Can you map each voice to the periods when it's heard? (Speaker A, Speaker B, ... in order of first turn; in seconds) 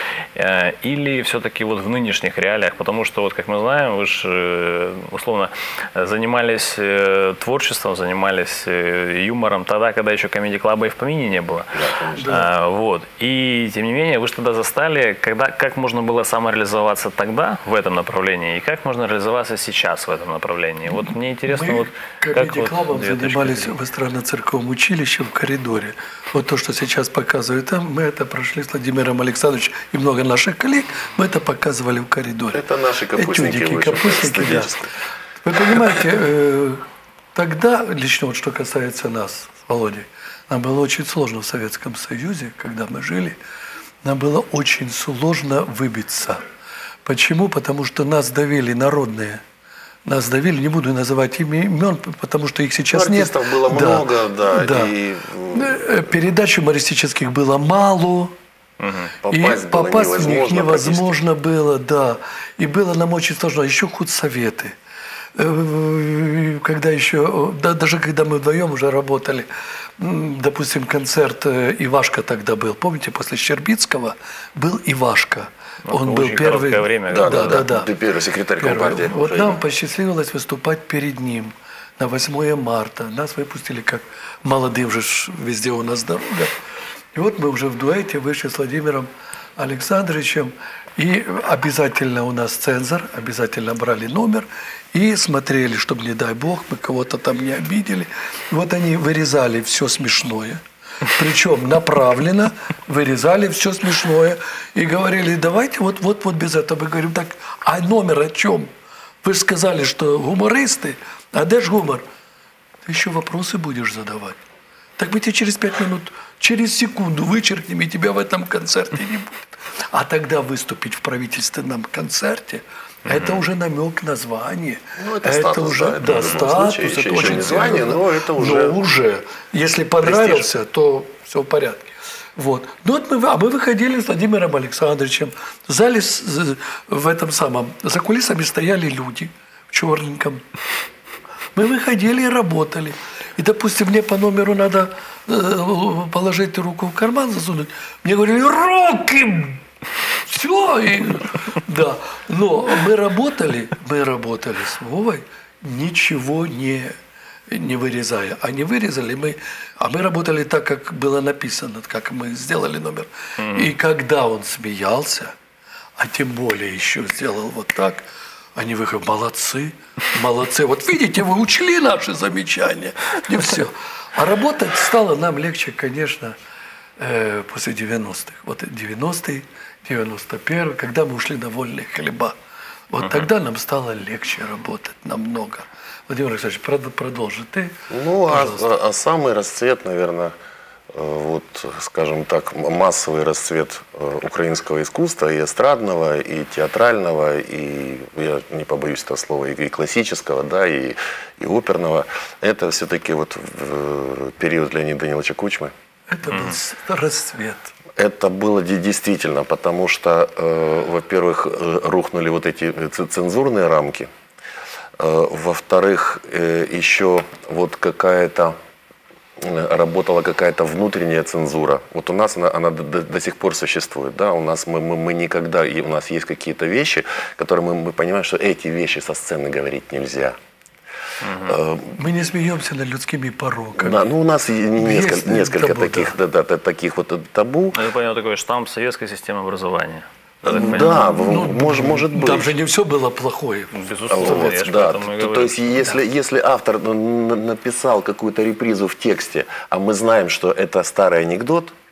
Speaker A: 0.4-11.7, 12.2-23.8, 58.8-59.1, 75.8-77.7, 123.1-123.4, 163.4-163.7, 231.2-231.6, 237.7-240.9, 243.7-245.7
Speaker B: 11.7-12.4, 32.5-34.9, 52.9-55.9, 59.2-61.2, 77.1-79.6, 125.0-128.8, 130.0-130.5, 187.9-190.3, 190.9-205.7, 208.0-214.1, 215.0-218.6, 219.4-230.4, 231.4-232.0, 233.8-237.8, 240.4-242.6, 244.1-251.7
Speaker C: 12.2-12.5, 21.1-34.9, 35.4-36.8, 37.3-43.4, 44.0-46.4, 47.0-49.4, 50.0-54.9, 55.5-58.3, 59.3-64.8, 65.4-77.9, 78.6-86.5, 87.1-100.6, 101.1-108.7, 109.2-112.0, 112.9-114.4, 115.0-140.4, 141.5-149.6, 150.2-156.9, 157.5-165.3, 166.0-176.3, 177.0-182.4, 182.9-188.7, 206.1-207.7, 231.9-234.1, 234.8-236.2, 240.7-244.6